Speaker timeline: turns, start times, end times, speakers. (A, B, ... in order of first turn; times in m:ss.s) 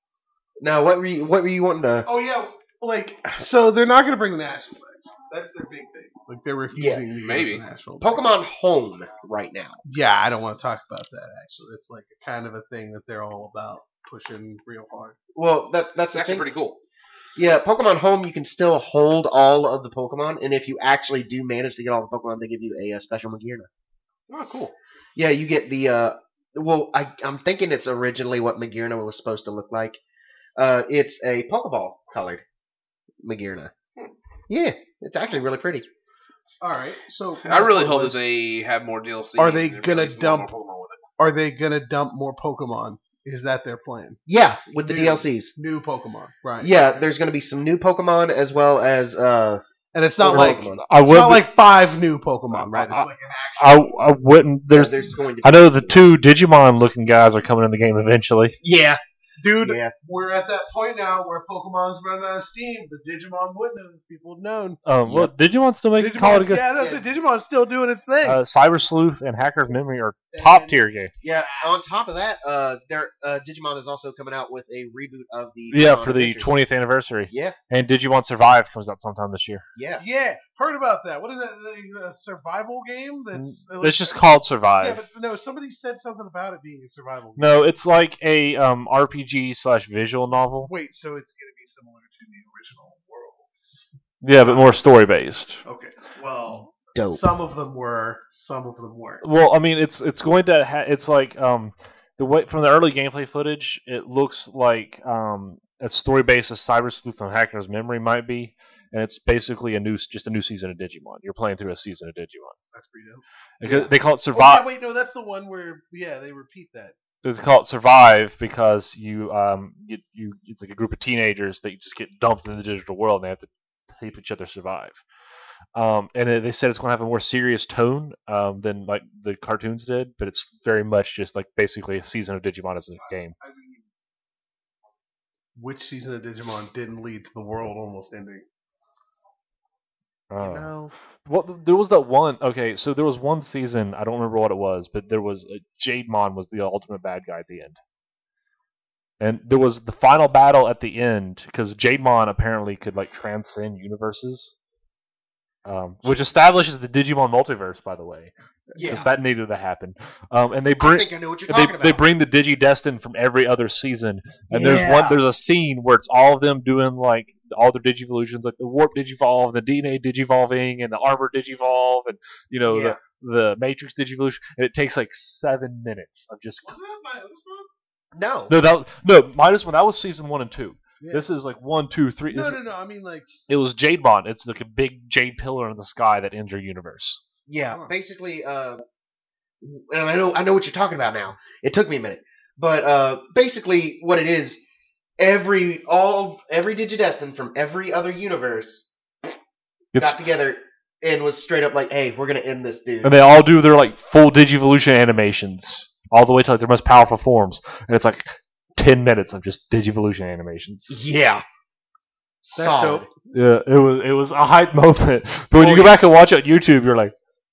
0:00.6-0:02.1 A
0:02.0-0:08.3 B
0:06.8-0:07.0 A
0:07.2-0:07.6 C
0:08.0-0:09.8 A
0:09.8-0:15.2 B
0:15.4-0:16.5 A
0:16.1-0:16.8 C
0:17.4-0:23.7 A
0:24.3-0:24.8 C
0:25.2-0:30.0 A
0:30.6-0:32.4 A
0:33.2-0:33.7 A
0:34.5-0:35.8 A
0:36.6-0:38.2 B
0:37.4-0:41.0 C
0:39.4-0:40.5 B
0:41.2-0:44.2 B
0:44.3-0:45.5 A
0:44.8-0:46.9 B
0:46.6-0:49.6 A
0:49.9-0:54.0 B
0:50.2-0:50.8 A
0:50.3-0:51.5 D
0:52.6-0:58.6 D
0:54.7-0:56.0 A
0:58.6-0:59.0 A
0:59.4-1:04.8 B
0:59.6-0:59.9 A
1:04.9-1:06.6 D
1:05.1-1:05.3 A
1:06.0-1:08.4 B
1:06.8-1:07.0 A
1:08.2-1:11.1 D
1:10.3-1:11.8 B
1:11.2-1:16.5 A
1:15.7-1:19.6 D
1:17.3-1:17.6 A
1:19.8-1:20.0 A
1:20.0-1:27.6 B
1:23.4-1:25.1 D
1:27.4-1:30.7 D
1:30.7-1:33.8 B
1:34.2-1:35.6 D
1:34.4-1:34.7 B
1:35.6-1:39.2 B
1:37.0-1:37.3 A
1:39.2-1:52.6 D
1:52.7-1:53.2 B
1:53.6-1:54.6 D
1:54.3-1:57.0 B
1:57.2-2:05.0 D
2:05.8-2:13.3 D
2:13.0-2:13.9 B
2:15.6-2:18.4 B
2:20.3-2:27.8 D
2:20.4-2:21.0 A
2:29.2-2:34.5 D
2:35.6-2:56.8 D
2:38.8-2:39.1 A
2:40.8-2:42.0 A
2:44.5-2:45.2 A
2:52.7-2:53.0 A
2:56.6-2:57.7 B
2:58.1-2:58.6 A
2:58.5-3:02.6 D
3:01.0-3:01.3 B
3:02.3-3:03.3 B
3:03.5-3:07.2 D
3:07.5-3:08.8 A
3:09.6-3:14.6 A
3:15.2-3:18.9 A
3:19.9-3:20.2 D
3:20.0-3:23.2 A
3:23.0-3:31.0 D
3:30.9-3:31.4 A
3:32.4-3:33.1 A
3:32.6-3:33.1 B
3:33.3-3:37.1 D
3:35.6-3:35.9 B